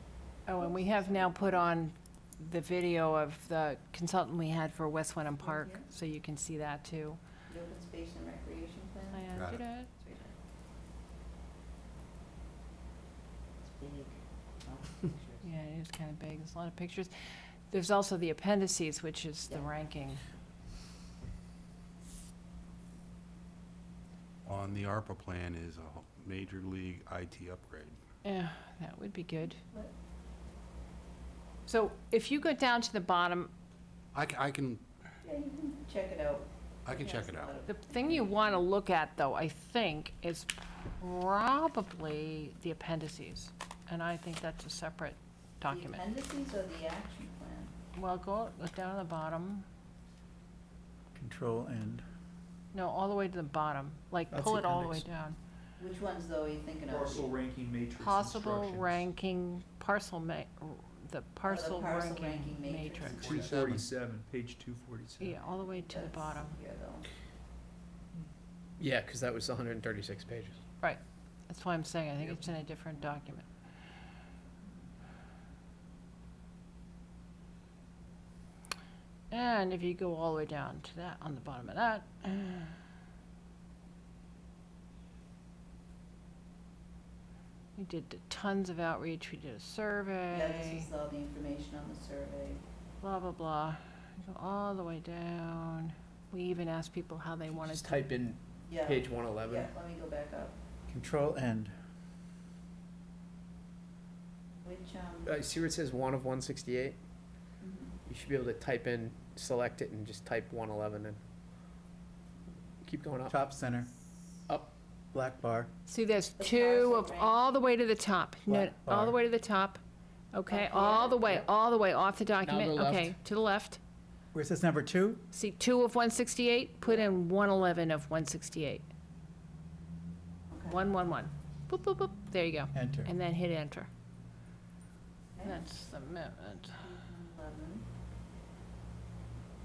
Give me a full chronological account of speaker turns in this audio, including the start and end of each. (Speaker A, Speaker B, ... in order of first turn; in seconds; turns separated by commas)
Speaker A: 0.5-7.2, Speaker B: 0.6-1.7, Speaker B: 5.4-5.9, Speaker B: 7.5-9.2, Speaker A: 9.1-9.9, Speaker C: 9.3-9.6, Speaker B: 10.0-10.3, Speaker B: 13.6-15.5, Speaker A: 15.4-17.1, Speaker A: 17.7-20.2, Speaker C: 24.4-28.0, Speaker A: 28.2-29.6, Speaker B: 29.6-29.9, Speaker A: 31.7-33.5, Speaker C: 34.1-34.9, Speaker B: 35.2-38.6, Speaker C: 36.9-37.5, Speaker A: 37.6-46.0, Speaker B: 45.7-47.7, Speaker A: 48.0-49.6, Speaker D: 51.1-52.0, Speaker A: 52.7-55.4, Speaker D: 54.3-55.0, Speaker B: 55.8-57.3, Speaker E: 56.9-59.0, Speaker A: 58.0-63.3, Speaker B: 61.5-63.5, Speaker E: 63.1-65.4, Speaker C: 63.3-63.9, Speaker A: 65.2-66.6, Speaker B: 65.4-67.1, Speaker F: 68.8-70.6, Speaker A: 70.8-73.5, Speaker A: 79.3-82.8, Speaker A: 87.8-90.9, Speaker B: 90.3-92.6, Speaker A: 93.0-98.1, Speaker F: 97.5-99.7, Speaker B: 98.7-100.6, Speaker D: 100.9-101.8, Speaker B: 104.6-105.3, Speaker F: 105.2-107.0, Speaker B: 107.6-108.0, Speaker F: 108.1-111.2, Speaker F: 112.8-113.3, Speaker D: 113.3-113.9, Speaker D: 115.1-115.7, Speaker A: 115.9-119.8, Speaker B: 116.4-117.4, Speaker D: 118.5-119.2, Speaker A: 120.3-123.8, Speaker B: 120.5-121.5, Speaker F: 122.4-123.2, Speaker D: 124.3-125.3, Speaker A: 125.3-128.8, Speaker B: 126.8-127.1, Speaker B: 130.5-130.8, Speaker A: 130.7-133.9, Speaker D: 132.7-133.1, Speaker B: 135.4-135.6, Speaker A: 135.4-136.9, Speaker B: 136.8-137.9